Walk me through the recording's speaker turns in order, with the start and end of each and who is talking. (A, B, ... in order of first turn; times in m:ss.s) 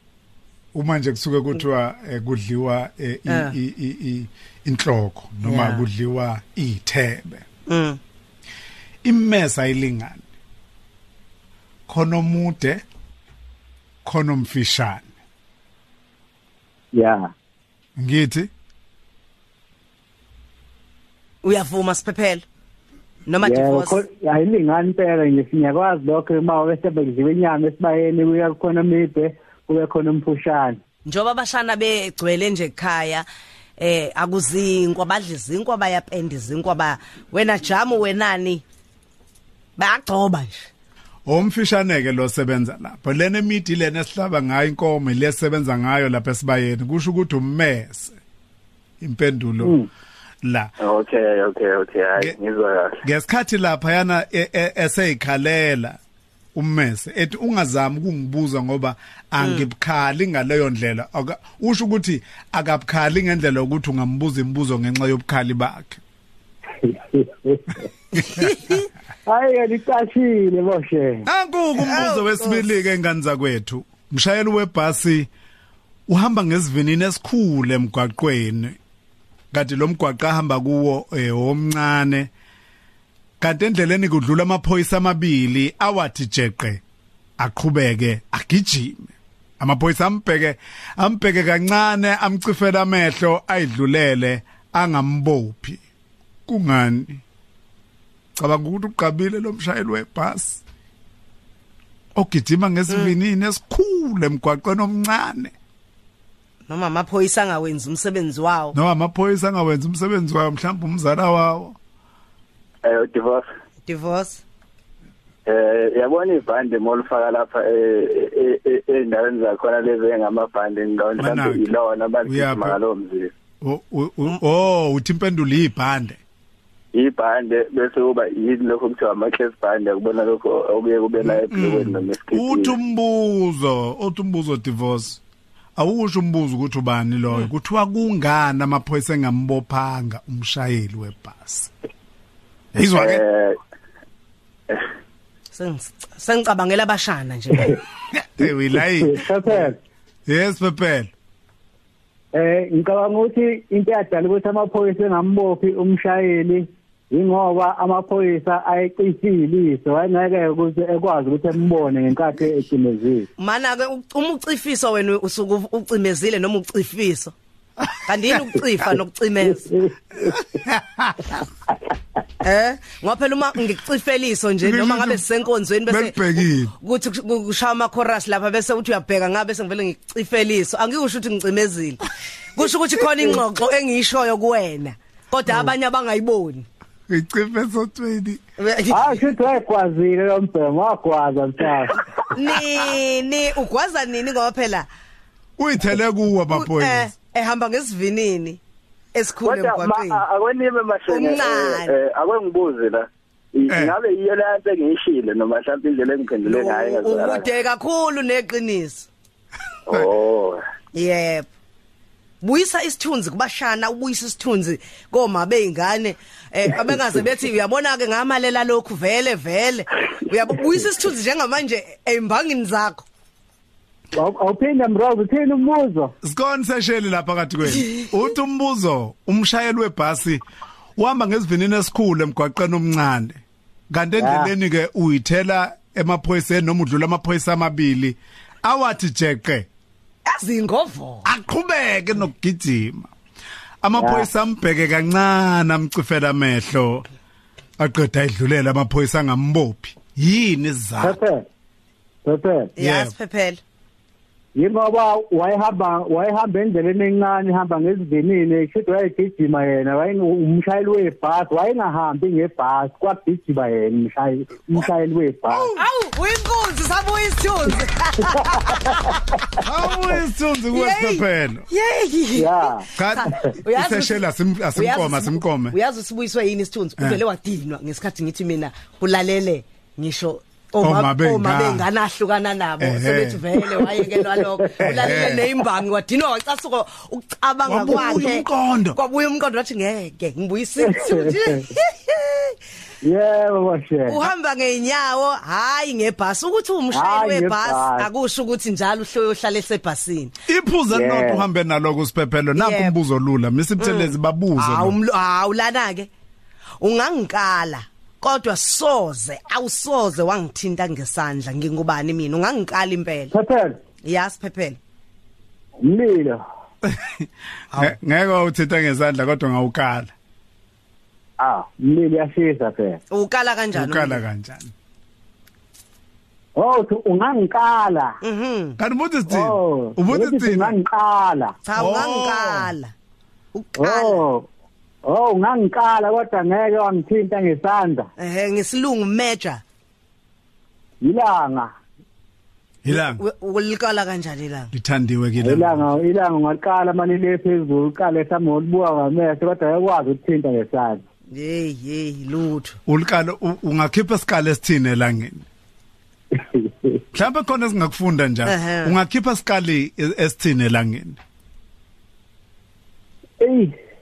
0:00.7-0:07.4 A
0:03.3-0:03.5 B
0:05.5-0:05.8 B
0:07.7-0:08.0 B
0:09.0-0:10.3 A
0:11.9-0:12.8 A
0:14.0-0:15.1 A
0:16.9-0:17.3 C
0:18.0-0:18.5 A
0:21.4-0:22.4 B
0:23.3-0:24.0 B
0:23.4-0:30.8 C
0:31.1-0:33.3 B
0:33.8-0:38.6 B
0:39.8-0:40.7 B
0:41.3-0:48.2 A
0:49.0-0:49.8 A
0:49.6-0:49.9 C
0:50.4-0:50.7 A
0:50.8-0:53.0 D
0:53.0-0:56.0 A
0:56.6-1:06.0 A
0:59.4-0:59.7 B
1:06.8-1:07.6 C
1:08.4-1:08.8 B
1:09.3-1:11.3 C
1:11.3-1:15.3 A
1:11.8-1:12.6 B
1:16.1-1:18.8 A
1:19.5-1:22.3 A
1:23.4-1:26.8 A
1:27.4-1:35.8 A
1:36.5-1:37.2 A
1:38.4-1:40.6 A
1:42.2-1:45.5 A
1:46.7-1:48.8 B
1:48.7-1:51.8 A
1:52.8-1:53.4 D
1:53.9-1:54.4 B
1:55.5-2:03.3 D
2:01.2-2:01.7 A
2:02.2-2:02.8 A
2:03.6-2:06.2 A
2:06.9-2:12.8 D
2:11.2-2:15.2 A
2:15.8-2:21.7 A
2:22.8-2:23.2 A
2:23.0-2:23.6 D
2:25.5-2:27.8 B
2:28.1-2:29.7 A
2:29.0-2:29.8 C
2:30.3-2:31.1 A
2:32.3-2:43.3 C
2:43.4-2:47.3 B
2:48.0-2:49.7 B
2:50.2-2:51.2 A
2:52.4-3:02.0 B
2:54.6-2:55.2 A
2:55.9-2:56.7 A
3:02.6-3:06.7 B
3:07.1-3:08.4 A
3:08.6-3:09.3 B
3:08.9-3:12.0 C
3:12.3-3:14.9 B
3:15.6-3:17.1 A
3:16.5-3:18.6 B
3:19.1-3:20.2 B
3:19.4-3:27.5 D
3:21.1-3:22.0 B
3:23.7-3:23.9 A
3:26.4-3:29.1 B
3:29.9-3:30.6 D
3:30.9-3:31.5 B
3:32.4-3:43.0 B
3:44.1-3:46.1 C
3:46.2-3:50.4 A
3:51.0-3:53.4 A
3:53.9-3:59.7 A
3:54.2-3:54.5 C
4:00.3-4:01.3 B
4:01.3-4:03.1 A
4:03.8-4:07.1 A
4:04.0-4:04.3 C
4:07.8-4:11.2 A
4:11.0-4:11.4 C
4:12.2-4:12.7 C
4:12.8-4:13.6 B
4:12.8-4:13.1 A
4:14.6-4:25.7 C
4:25.5-4:29.2 B
4:29.6-4:31.7 A
4:30.7-4:34.2 B
4:32.4-4:32.8 C
4:33.0-4:35.8 A
4:34.8-4:52.6 B
4:40.8-4:41.9 A
4:42.8-4:43.4 A
4:44.8-4:45.4 A
4:47.7-4:49.0 A
4:50.8-4:51.6 C
4:53.0-4:54.3 C
4:54.1-5:00.3 B
4:56.9-4:58.1 C
5:00.5-5:05.0 A
5:00.9-5:01.5 C
5:02.6-5:03.0 B
5:03.8-5:06.1 B
5:06.8-5:13.3 B
5:13.3-5:13.8 C
5:14.0-5:14.8 B
5:15.8-5:16.4 C
5:16.9-5:20.1 A
5:21.4-5:23.0 C
5:23.1-5:24.2 B
5:23.8-5:24.7 A
5:26.6-5:28.2 C
5:28.2-5:28.8 B
5:28.8-5:30.8 A
5:29.3-5:31.6 C
5:31.6-5:32.9 B
5:31.8-5:32.7 A
5:33.5-5:34.2 B
5:33.8-5:34.5 C
5:35.0-5:38.1 C
5:38.2-5:39.6 B
5:41.0-5:41.7 C
5:42.8-5:43.2 A
5:42.9-5:44.7 B
5:44.7-5:45.9 A
5:45.4-5:51.0 C
5:51.3-5:52.8 B
5:52.9-5:55.5 A
5:56.4-5:56.9 C
5:57.1-6:01.2 A
5:58.5-5:59.0 B
6:03.4-6:03.7 C